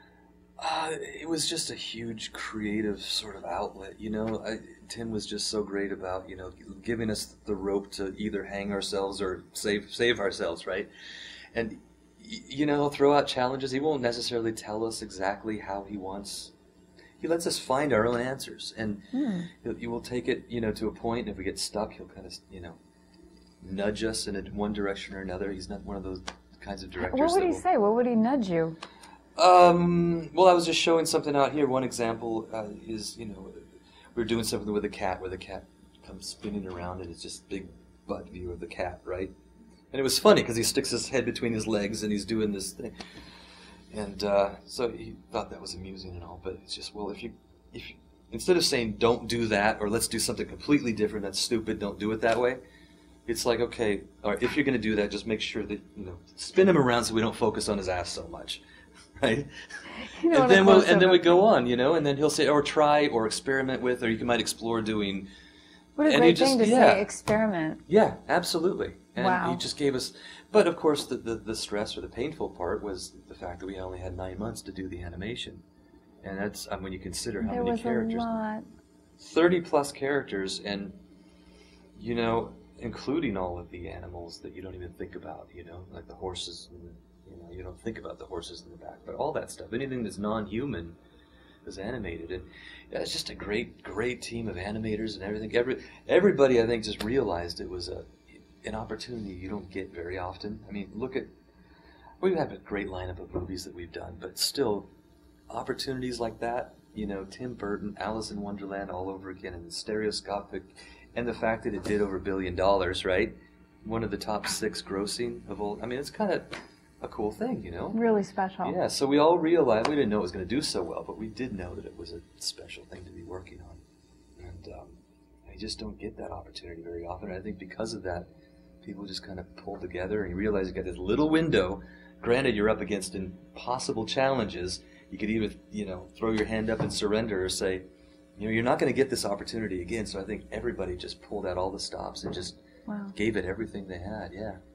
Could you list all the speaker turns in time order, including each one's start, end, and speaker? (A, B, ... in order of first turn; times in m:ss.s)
0:00.6-0:10.9 A
0:11.5-0:16.5 A
0:17.2-0:22.8 A
0:19.1-0:19.5 B
0:23.6-0:27.6 A
0:27.0-0:28.8 B
0:29.4-0:39.3 A
0:39.9-0:42.9 A
0:43.9-0:52.6 A
0:53.3-0:58.6 A
0:59.2-0:59.5 A
0:59.9-1:01.4 B
1:00.3-1:05.3 A
1:06.0-1:07.8 B
1:06.0-1:07.1 A
1:07.9-1:15.6 A
1:09.2-1:09.6 B
1:16.2-1:18.3 A
1:17.4-1:18.7 B
1:19.2-1:21.0 A
1:22.0-1:31.0 A
1:31.6-1:41.3 A
1:42.2-1:44.9 A
1:45.5-1:58.0 A
1:57.9-1:58.8 B
1:58.6-2:03.8 A
2:04.4-2:08.3 A
2:08.8-2:17.8 A
2:18.4-2:22.6 A
2:22.9-2:23.1 B
2:23.1-2:24.6 A